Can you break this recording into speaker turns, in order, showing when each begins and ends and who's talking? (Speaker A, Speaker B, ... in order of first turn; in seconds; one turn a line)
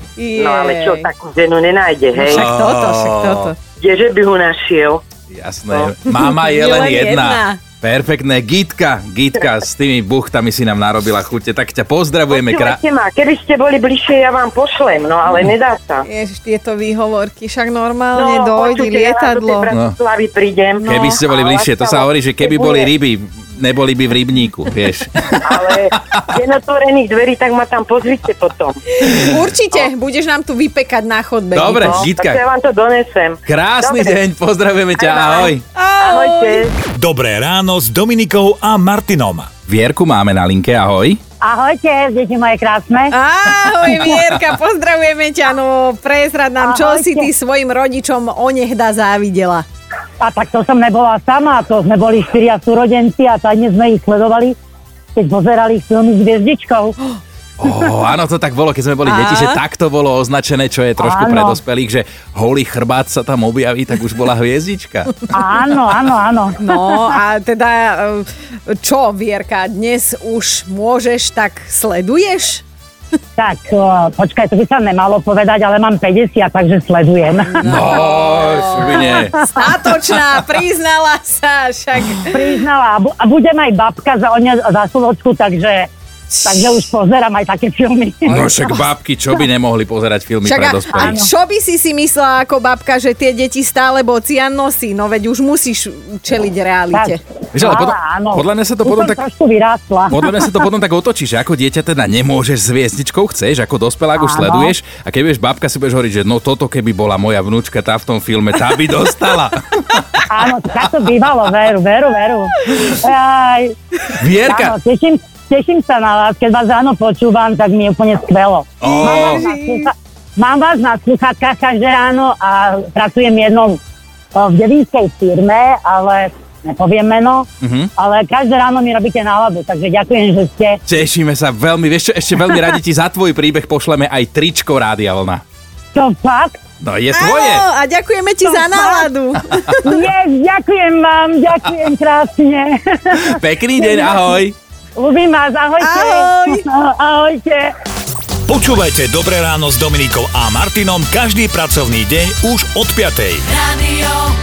Speaker A: 0.2-1.1
Speaker B: 0.3-2.5
Speaker A: 2.1-3.6
Speaker C: 2.3-3.5
Speaker B: 3.8-5.0
Speaker C: 5.3-12.8
Speaker A: 6.1-7.6
Speaker B: 12.3-16.1
Speaker A: 16.0-19.7
Speaker B: 18.1-22.9
Speaker A: 20.8-21.1
Speaker C: 20.9-26.2
Speaker B: 25.4-28.8
Speaker A: 29.0-32.0
Speaker C: 31.5-32.4
Speaker B: 31.6-34.2
Speaker C: 33.5-35.6
Speaker B: 35.0-36.7
Speaker A: 35.1-36.6
Speaker D: 36.9-39.5
Speaker C: 39.7-41.2
Speaker E: 41.4-43.1
Speaker A: 43.1-49.6
Speaker E: 46.6-47.3
Speaker E: 50.2-54.6
Speaker E: 55.1-57.1
Speaker C: 57.6-65.2
Speaker A: 59.0-59.6
Speaker E: 61.0-61.6
Speaker E: 65.3-67.1
Speaker A: 66.6-72.6
Speaker E: 73.4-78.0
Speaker A: 77.5-82.6
Speaker C: 77.6-79.4
Speaker E: 82.3-85.9
Speaker E: 86.4-88.7
Speaker A: 86.5-86.8
Speaker C: 88.3-91.2
Speaker A: 90.4-97.2
Speaker E: 90.9-91.3
Speaker E: 96.9-100.4
Speaker C: 97.5-99.2
Speaker C: 100.1-110.1
Speaker E: 104.1-104.7
Speaker E: 110.3-113.8
Speaker C: 114.2-114.7
Speaker E: 114.4-123.8
Speaker C: 118.8-119.5
Speaker A: 118.8-119.9
Speaker E: 124.3-130.8
Speaker C: 127.6-127.9
Speaker C: 130.8-135.4
Speaker E: 135.9-136.6
Speaker C: 136.8-137.6
Speaker A: 137.1-139.9
Speaker E: 138.4-139.1
Speaker E: 139.6-143.4
Speaker C: 143.3-144.6
Speaker E: 144.9-147.7
Speaker A: 145.8-146.6
Speaker D: 148.5-153.5
Speaker E: 153.8-154.2